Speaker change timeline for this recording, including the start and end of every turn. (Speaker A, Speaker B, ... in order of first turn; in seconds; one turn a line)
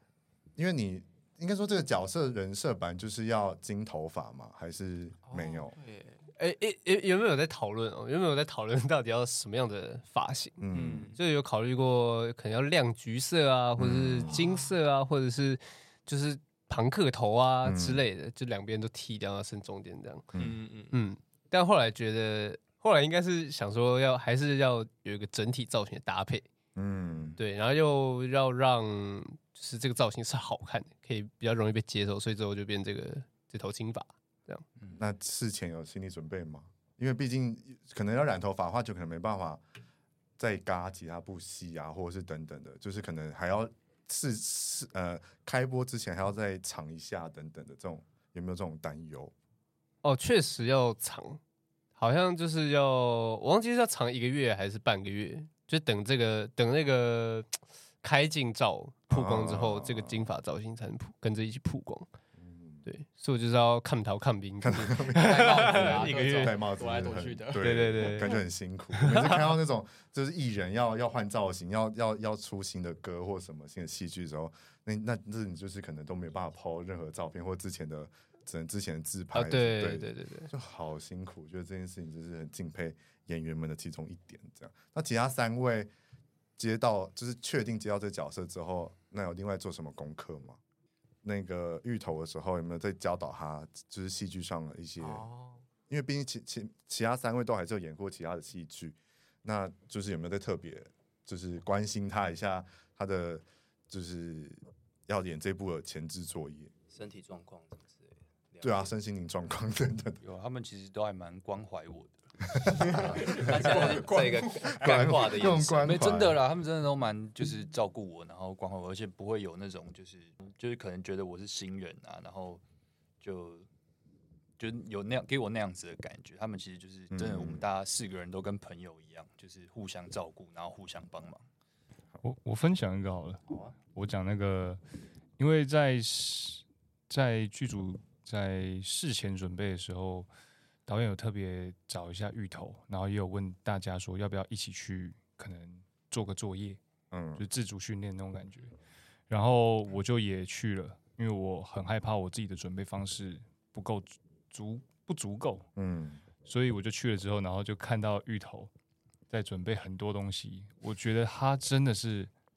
Speaker A: 0.6-5.7
Speaker B: 5.2-6.2
Speaker C: 6.3-10.6
Speaker A: 10.6-11.1
Speaker B: 10.7-11.2
Speaker C: 11.1-20.3
Speaker A: 13.8-14.4
Speaker B: 14.2-14.7
Speaker A: 17.6-18.0
Speaker B: 20.3-20.9
Speaker C: 20.9-26.4
Speaker A: 26.7-27.4
Speaker C: 27.4-34.6
Speaker A: 34.9-39.6
Speaker A: 40.4-49.3
Speaker C: 50.0-51.4
Speaker C: 52.0-62.1
Speaker A: 59.1-60.3
Speaker A: 62.4-62.8
Speaker C: 62.8-66.6
Speaker A: 64.6-85.9
Speaker B: 65.1-67.7
Speaker C: 67.6-68.4
Speaker C: 68.9-69.4
Speaker C: 79.3-80.5
Speaker A: 86.6-90.6
Speaker A: 91.2-95.3
Speaker B: 95.0-95.6
Speaker A: 95.9-106.7
Speaker D: 106.9-108.9
Speaker A: 108.6-110.2
Speaker E: 110.2-113.4
Speaker A: 112.5-113.9
Speaker B: 112.7-115.0
Speaker D: 113.3-116.2
Speaker A: 114.7-116.4
Speaker E: 115.8-122.6
Speaker E: 123.2-123.7
Speaker E: 124.6-131.4
Speaker A: 127.1-127.7
Speaker F: 132.2-133.4
Speaker D: 133.5-133.7
Speaker F: 133.9-134.8
Speaker F: 135.4-140.3
Speaker F: 140.8-146.8
Speaker A: 147.1-147.4
Speaker F: 147.4-148.7
Speaker F: 149.3-155.7
Speaker A: 155.8-156.2
Speaker F: 156.4-158.7
Speaker F: 159.3-162.3